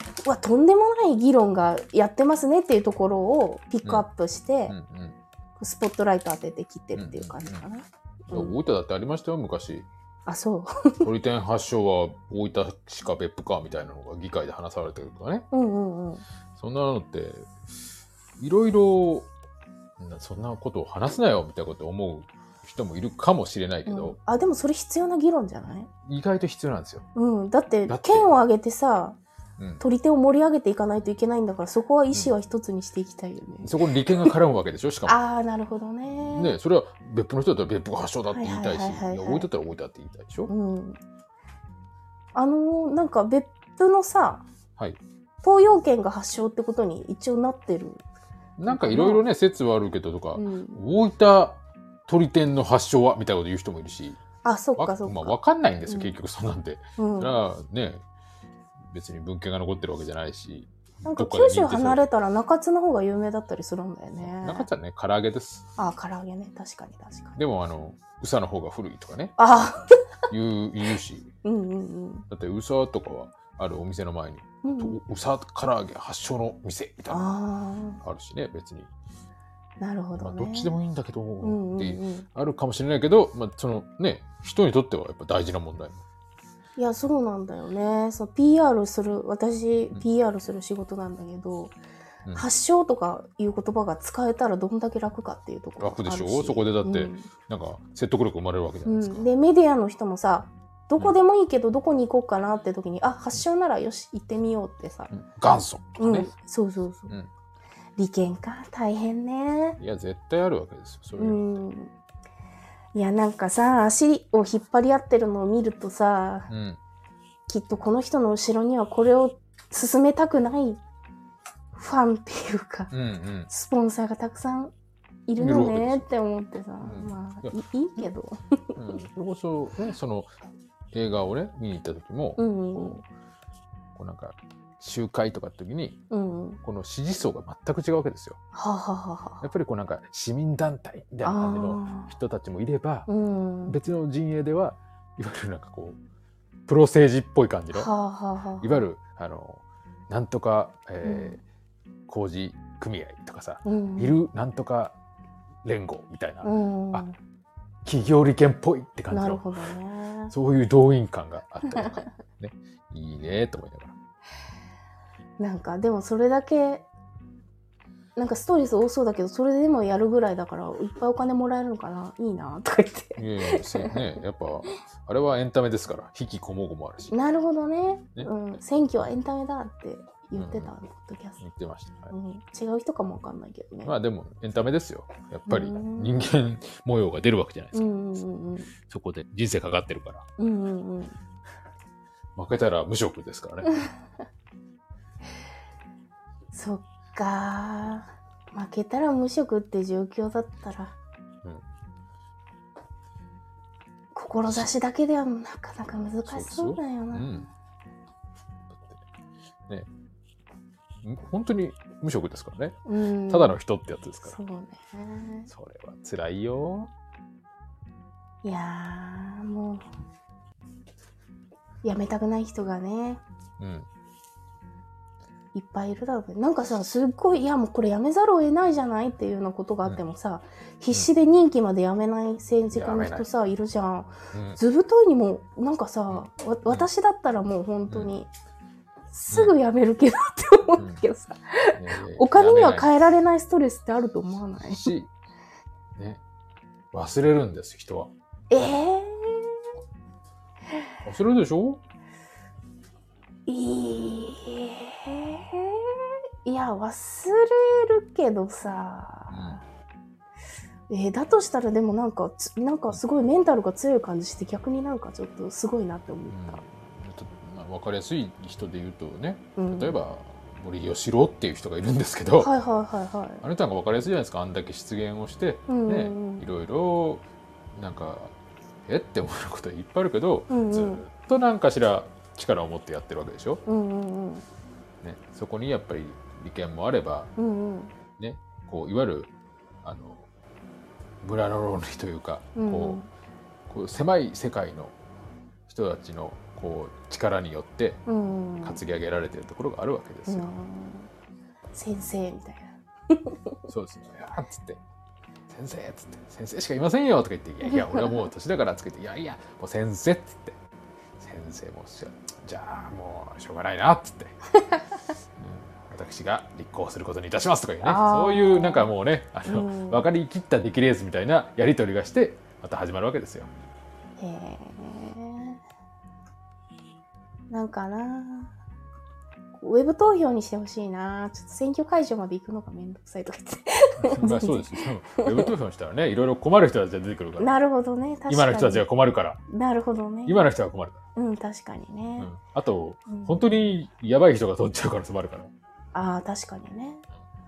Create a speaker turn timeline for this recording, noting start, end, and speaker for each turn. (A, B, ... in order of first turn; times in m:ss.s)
0:00.2-0:04.7 A
0:04.7-0:05.2 B
0:05.6-0:08.6 A
0:06.9-0:07.6 B
0:08.3-0:09.9 B
0:10.3-0:11.1 A
0:11.0-0:15.5 B
0:15.5-0:16.2 A
0:16.6-0:17.5 B
0:18.4-0:19.3 B
0:20.0-0:24.2 B
0:23.8-0:25.9 A
0:26.0-0:27.1 B
0:27.1-0:29.2 A
0:27.9-0:28.3 B
0:29.6-0:29.8 B
0:29.8-0:34.3 A
0:33.6-0:35.2 B
0:35.0-0:36.6 A
0:36.3-0:40.5 B
0:38.3-0:39.5 A
0:40.5-0:41.0 A
0:42.3-0:44.4 A
0:45.4-0:48.0 A
0:48.6-0:54.2 B
0:48.7-0:49.2 A
0:50.4-0:50.8 A
0:54.4-0:55.4 A
0:54.8-0:58.0 B
0:55.9-0:56.1 A
0:57.0-0:57.4 A
0:58.9-1:02.0 B
1:01.0-1:04.7 A
1:04.2-1:05.6 B
1:05.8-1:07.4 A
1:07.4-1:09.4 B
1:09.4-1:09.8 A
1:10.3-1:11.3 B
1:11.4-1:12.2 A
1:12.3-1:17.2 B
1:14.6-1:15.0 A
1:17.1-1:18.0 A
1:18.0-1:18.9 B
1:19.8-1:20.7 A
1:20.1-1:26.0 B
1:21.4-1:22.2 A
1:26.8-1:31.8 A
1:32.3-1:37.3 A
1:35.8-1:39.2 B
1:38.8-1:45.1 A
1:45.1-1:46.3 B
1:46.0-1:47.1 A
1:48.0-1:49.8 A
1:49.8-1:51.4 B
1:51.2-1:51.9 A
1:52.9-1:56.5 A
1:56.5-1:56.8 B
1:57.5-2:00.8 A
2:01.8-2:02.9 A
2:02.9-2:03.5 B
2:03.5-2:04.7 A
2:05.3-2:08.3 A
2:05.4-2:06.0 B
2:06.8-2:07.5 B
2:08.8-2:10.3 B
2:10.9-2:13.0 B
2:12.4-2:13.0 A
2:13.9-2:16.0 B
2:16.1-2:16.6 A
2:16.6-2:18.4 B
2:18.5-2:19.4 A
2:19.4-2:23.1 B
2:21.2-2:22.1 A
2:23.1-2:23.8 A
2:23.6-2:26.0 B
2:26.7-2:27.9 B
2:27.7-2:28.8 A
2:28.6-2:31.4 B
2:31.0-2:31.4 A
2:32.1-2:34.9 B
2:33.6-2:34.2 A
2:35.6-2:37.0 B
2:36.4-2:37.2 A
2:37.8-2:39.5 B
2:39.1-2:40.3 A
2:40.3-2:43.9 B
2:41.7-2:42.1 A
2:45.4-2:46.9 A
2:48.2-2:54.0 A
2:53.2-2:57.1 B
2:57.1-3:01.4 A
3:00.3-3:00.7 B
3:01.4-3:02.1 B
3:02.1-3:03.9 A
3:03.8-3:07.8 B
3:05.5-3:06.3 A
3:07.7-3:08.7 A
3:08.8-3:10.2 B
3:10.4-3:11.2 A
3:12.4-3:13.7 B
3:16.5-3:20.9 A
3:24.1-3:27.4 A
3:26.3-3:27.5 B
3:28.7-3:29.0 B
3:31.0-3:34.4 B
3:32.8-3:33.6 A
3:34.2-3:35.5 A
3:35.5-3:36.9 B
3:38.4-3:39.8 A
3:41.8-3:43.2 A
3:43.6-3:43.9 B
3:45.5-3:58.3 A
3:52.7-3:53.2 B
3:54.3-3:54.6 B
3:56.1-3:56.9 B
3:57.9-3:58.1 B
3:59.1-4:04.9 A
4:00.8-4:01.0 B
4:01.7-4:02.9 B
4:04.6-4:05.1 B
4:06.0-4:06.2 B
4:06.9-4:08.1 B
4:08.5-4:09.6 A
4:11.0-4:11.8 B
4:13.5-4:19.6 A
4:19.3-4:19.6 B
4:20.9-4:26.6 A
4:26.3-4:32.5 B
4:29.6-4:30.0 A
4:32.4-4:33.4 A
4:33.4-4:43.6 B
4:35.7-4:36.4 A
4:40.5-4:41.0 A
4:43.6-4:44.4 A
4:45.0-4:47.3 B
4:47.4-4:47.9 A
4:48.2-4:49.3 B
4:49.8-4:50.2 B
4:51.2-4:53.0 B
4:52.6-4:53.1 A
4:53.7-4:54.9 B
4:55.7-4:58.0 B
4:58.1-4:58.8 A
4:58.6-5:00.5 B
5:00.3-5:01.1 A
5:01.7-5:03.5 A
5:03.7-5:04.8 B
5:05.5-5:10.6 B
5:07.6-5:08.3 A
5:11.2-5:14.4 B
5:15.4-5:23.5 B
5:17.8-5:18.9 A
5:19.4-5:20.0 A
5:24.2-5:25.6 A
5:27.5-5:28.5 A
5:29.6-5:35.5 A
5:34.0-5:37.5 B
5:37.4-5:38.8 A
5:38.3-5:39.4 B
5:39.5-5:40.5 A
5:40.2-5:41.0 B
5:41.2-5:42.3 A
5:42.2-5:45.5 B
5:43.1-5:43.5 A
5:45.9-5:47.0 A